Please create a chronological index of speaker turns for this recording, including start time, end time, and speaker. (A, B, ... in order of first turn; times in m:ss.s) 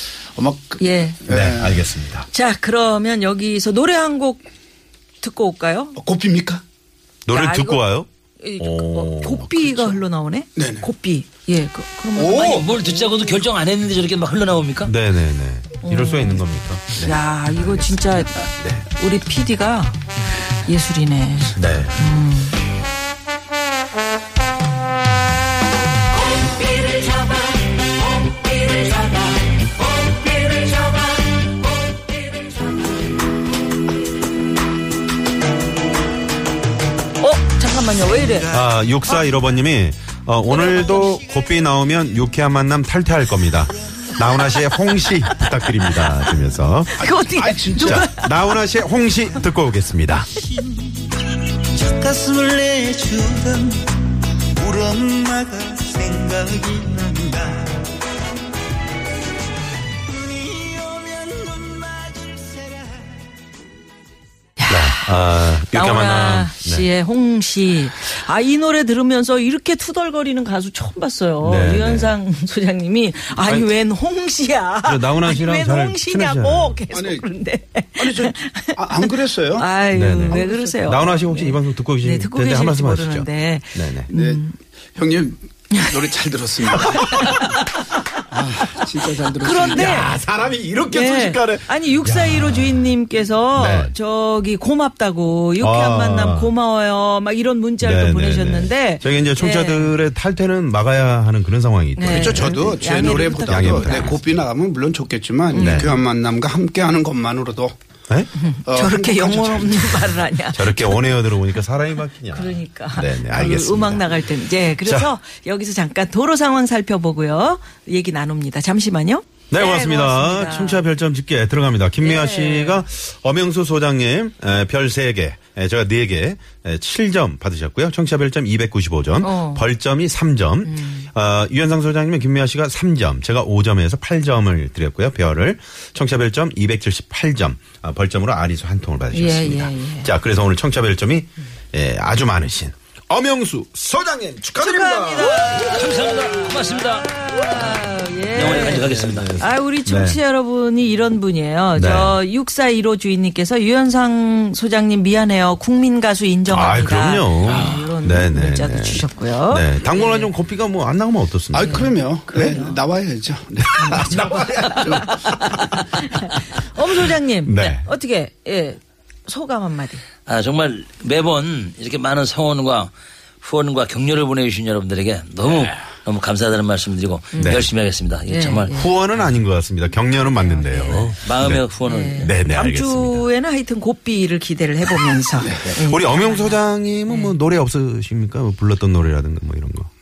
0:00.3-0:01.8 A
0:00.8-0:01.2 B
0:01.3-0:02.3 C
0:02.3-0:04.4 B
0:05.2-0:06.0 B
0:06.0-0:06.6 A
0:07.3-0:10.0 C
0:07.3-0:07.8 B
0:08.4-0:13.2 B
0:10.6-0:10.9 A
0:12.1-0:12.7 A
0:12.3-0:14.9 D
0:14.8-0:18.8 C
0:15.8-0:20.0 B
0:20.6-0:22.6 B
0:21.5-0:22.1 C
0:30.2-0:30.6 B
0:37.2-0:39.3 B
0:38.5-0:47.0 C
0:40.6-0:41.1 B
0:46.9-0:48.3 B
0:47.0-0:48.1 A
0:47.8-0:50.3 C
0:51.7-0:54.0 E
0:54.6-0:57.8 E
1:00.1-1:03.2 E
1:04.6-1:24.6 B
1:04.7-1:06.9 C
1:11.4-1:12.2 C
1:13.4-1:13.7 C
1:14.8-1:16.8 C
1:16.9-1:17.2 A
1:18.0-1:19.7 A
1:19.9-1:24.1 C
1:20.3-1:21.1 A
1:24.1-1:24.4 A
1:25.0-1:27.5 A
1:26.7-1:27.7 B
1:27.2-1:27.5 C
1:28.1-1:30.1 A
1:29.4-1:30.1 B
1:29.6-1:32.9 C
1:30.9-1:39.9 B
1:33.5-1:33.9 C
1:35.6-1:36.5 C
1:37.8-1:44.2 C
1:42.0-1:44.2 B
1:42.1-1:47.7 A
1:45.5-1:46.0 B
1:45.5-1:45.9 C
1:48.4-1:51.1 B
1:48.6-1:50.1 A
1:50.5-1:54.3 C
1:52.3-2:00.8 B
1:54.8-1:55.1 C
1:59.5-2:26.0 C
2:02.0-2:02.8 B
2:09.2-2:09.6 B
2:10.6-2:11.1 B
2:19.1-2:20.1 B
2:24.6-2:40.3 B
2:25.4-2:27.4 D
2:28.3-2:29.4 D
2:28.4-2:30.2 C
2:31.7-2:32.2 C
2:36.4-2:41.9 C
2:37.5-2:37.7 D
2:41.5-2:45.2 A
2:41.6-2:42.8 B
2:43.7-2:45.7 C
2:43.8-2:50.0 B
2:47.4-2:47.8 C
2:50.2-2:58.7 D
2:57.3-2:57.6 B
2:57.4-2:57.7 C
2:58.2-2:58.9 B
2:58.7-3:01.6 C
3:00.2-3:01.1 B
3:01.2-3:02.3 D
3:01.8-3:07.4 B
3:02.2-3:03.2 C
3:05.6-3:09.9 C